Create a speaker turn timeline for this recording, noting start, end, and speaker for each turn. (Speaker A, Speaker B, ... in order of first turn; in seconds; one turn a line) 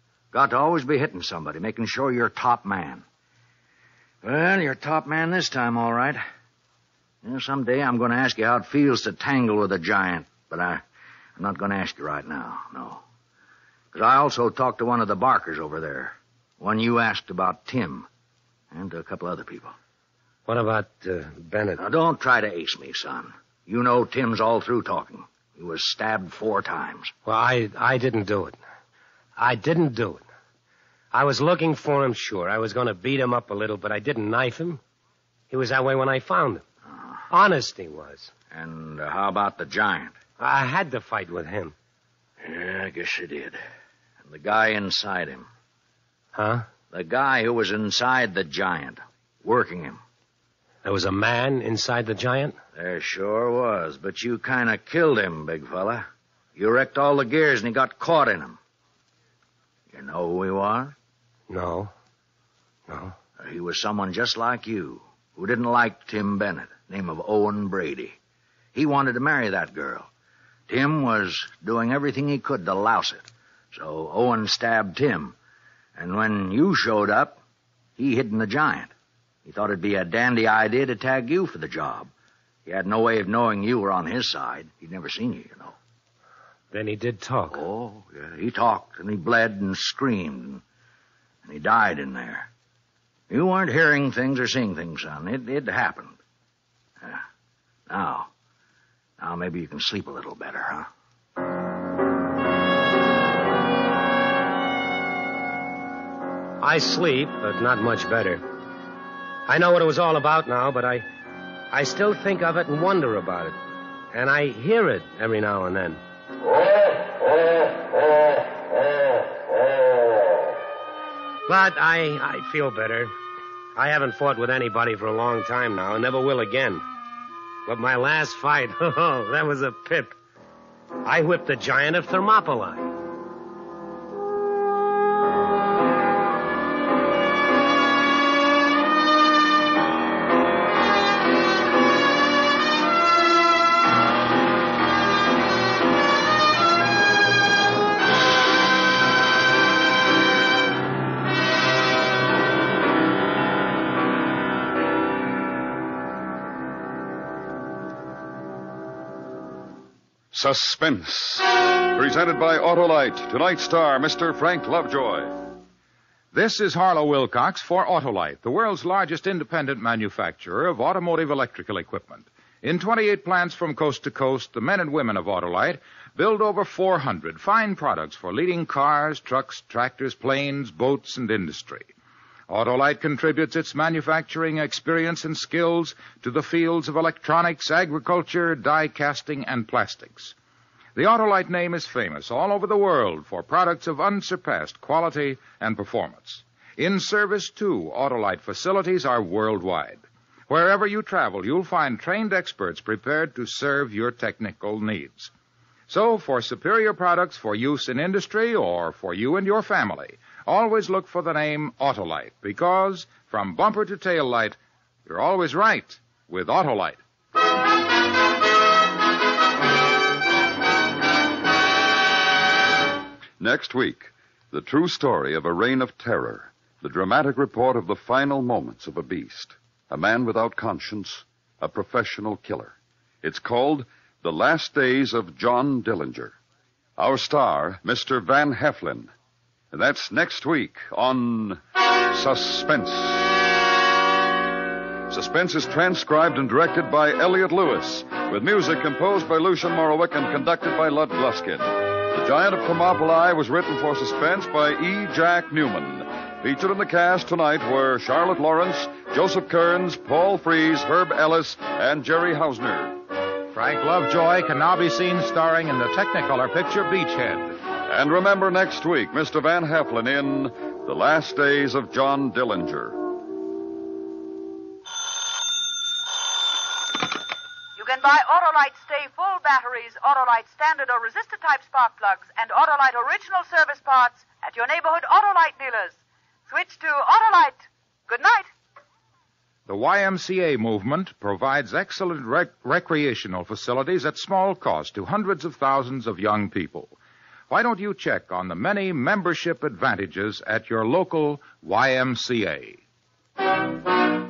Speaker A: 0.3-3.0
Speaker A: 4.2-6.2
Speaker A: 7.2-10.8
Speaker A: 11.4-13.0
Speaker A: 13.9-18.1
Speaker A: 18.7-19.8
Speaker B: 20.5-21.8
Speaker A: 21.8-27.1
Speaker B: 27.3-28.6
Speaker B: 29.4-30.2
Speaker B: 31.1-34.8
Speaker B: 35.5-36.6
Speaker B: 37.3-38.3
Speaker A: 38.5-40.1
Speaker B: 40.4-41.8
Speaker A: 42.4-43.6
Speaker A: 44.2-45.5
Speaker B: 46.4-46.6
Speaker A: 46.9-50.0
Speaker B: 50.8-52.6
Speaker A: 52.8-58.6
Speaker A: 59.9-61.0
Speaker B: 61.5-61.9
Speaker B: 62.9-63.1
Speaker A: 63.4-68.2
Speaker A: 68.7-70.1
Speaker A: 70.7-75.4
Speaker A: 76.0-77.4
Speaker A: 78.0-78.9
Speaker A: 79.5-82.1
Speaker A: 82.7-85.8
Speaker B: 86.7-87.6
Speaker A: 87.5-90.6
Speaker A: 91.4-92.5
Speaker A: 93.3-96.2
Speaker A: 97.9-98.3
Speaker A: 99.2-100.9
Speaker B: 106.6-108.4
Speaker B: 109.5-111.0
Speaker B: 111.7-113.6
Speaker B: 114.1-116.0
Speaker B: 121.5-123.1
Speaker B: 123.8-126.8
Speaker B: 127.7-130.2
Speaker B: 131.1-132.9
Speaker C: 160.3-165.3
Speaker D: 166.3-181.9
Speaker D: 182.5-190.3
Speaker D: 190.9-205.3
Speaker D: 205.9-217.0
Speaker C: 223.4-236.3
Speaker C: 237.0-239.1
Speaker C: 239.7-241.6
Speaker C: 242.1-243.5
Speaker C: 245.1-263.0
Speaker D: 263.5-267.6
Speaker C: 267.9-273.0
Speaker E: 277.8-285.9
Speaker E: 286.5-288.5
Speaker D: 289.7-296.9
Speaker D: 297.5-302.8